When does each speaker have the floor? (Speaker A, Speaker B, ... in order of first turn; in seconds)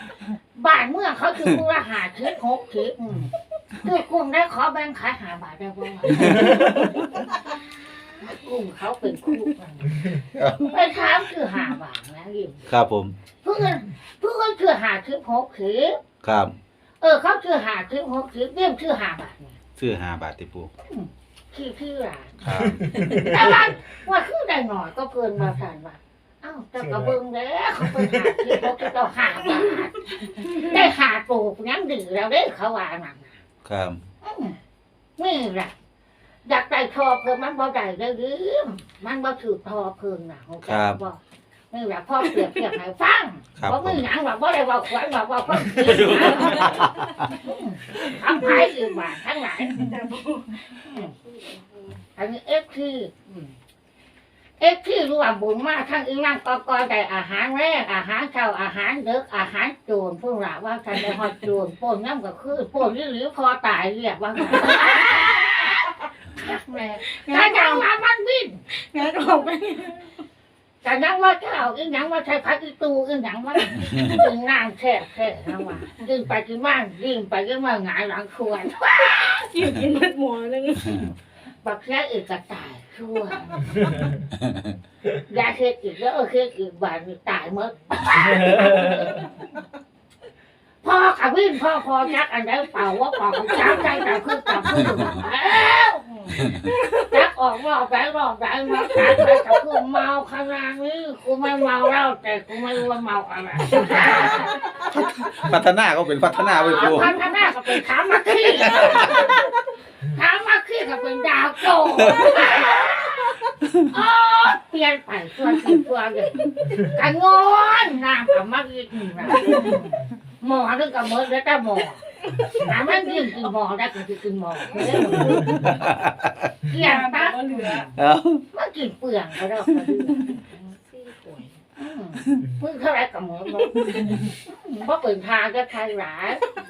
Speaker A: 0.5-6.7, 8.1-12.7, 13.4-16.0, 17.0-19.6, 20.9-22.4, 23.0-33.4, 34.2-34.6, 35.2-35.7, 36.5-41.2, 41.7-49.9, 50.9-51.1, 52.2-53.5, 54.6-68.6, 70.8-79.5, 80.9-81.1, 81.6-83.9, 85.3-89.3, 90.8-104.6, 106.3-109.4, 110.0-125.6, 126.7-128.0, 128.5-130.5, 131.8-136.4
Speaker B: 10.3-10.7, 12.7-13.2, 16.2-16.6, 19.8-20.7, 22.4-22.9, 33.6-34.0, 40.6-41.0, 43.6-44.0, 45.7-47.1, 105.3-107.2, 108.8-109.1, 112.0-112.5, 125.5-126.5, 128.0-128.4
Speaker C: 46.5-46.8, 48.2-48.8, 49.6-52.0, 67.1-67.8, 68.7-70.2, 79.2-81.1, 124.7-125.5, 126.8-127.9, 130.4-131.6